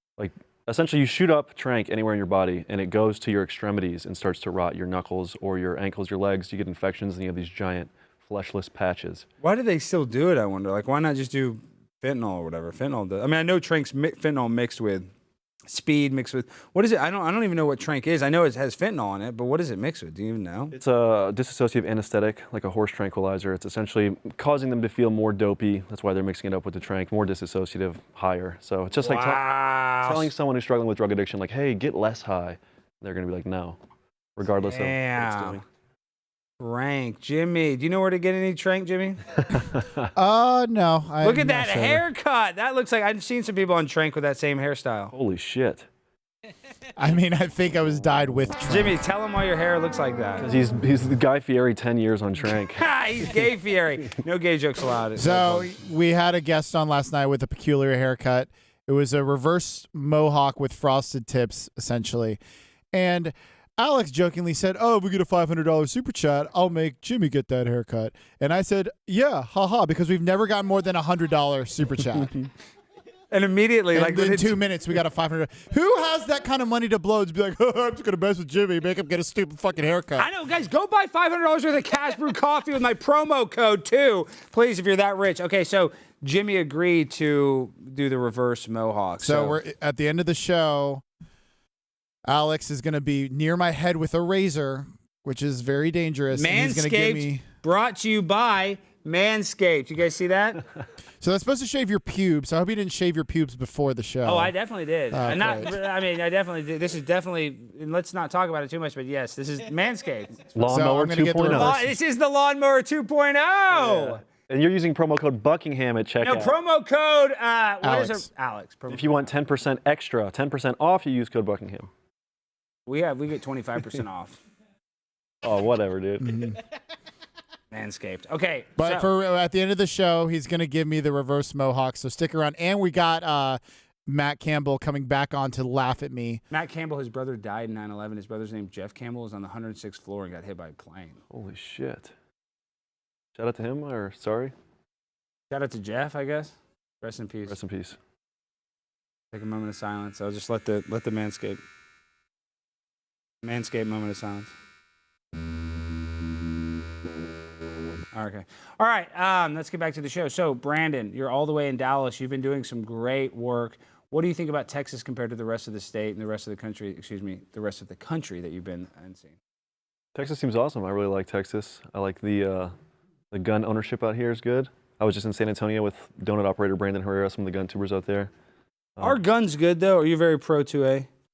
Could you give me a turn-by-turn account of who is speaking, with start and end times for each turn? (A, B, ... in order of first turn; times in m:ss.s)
0:00.2-0:09.2 A
0:09.4-0:15.1 B
0:15.7-0:20.8 B
0:20.7-0:29.5 A
0:29.0-0:30.3 B
0:30.0-0:33.8 A
0:34.4-0:35.6 A
0:34.6-0:35.6 B
0:36.6-0:39.6 B
0:39.5-0:40.1 A
0:40.2-0:42.0 C
0:41.2-0:45.1 B
0:45.1-0:45.9 A
0:47.0-0:49.0 C
0:48.7-0:50.5 B
0:50.4-0:52.9 A
0:52.7-0:55.8 B
0:55.2-1:02.4 C
1:02.9-1:12.3 C
1:13.3-1:14.6 B
1:13.9-1:20.3 C
1:20.2-1:29.6 B
1:29.2-1:31.0 C
1:32.2-1:37.4 C
1:36.3-1:40.6 B
1:41.2-1:44.5 C
1:44.2-1:50.5 B
1:45.1-1:45.7 C
1:50.6-1:51.8 A
1:50.6-1:52.0 C
1:51.5-1:54.2 B
1:53.7-1:56.6 A
1:56.2-1:59.3 B
1:57.8-1:58.3 C
1:58.9-2:01.9 A
2:02.9-2:04.4 B
2:05.4-2:06.5 A
2:06.2-2:06.6 C
2:07.7-2:09.1 B
2:08.8-2:16.4 C
2:16.5-2:21.2 B
2:21.3-2:22.1 A
2:23.4-2:24.5 A
2:25.5-2:27.6 B
2:27.5-2:28.0 A
2:29.3-2:31.6 B
2:33.4-2:34.5 B
2:38.1-2:49.4 B
2:50.2-2:52.7 A
2:53.3-2:58.3 A
2:59.0-3:01.1 B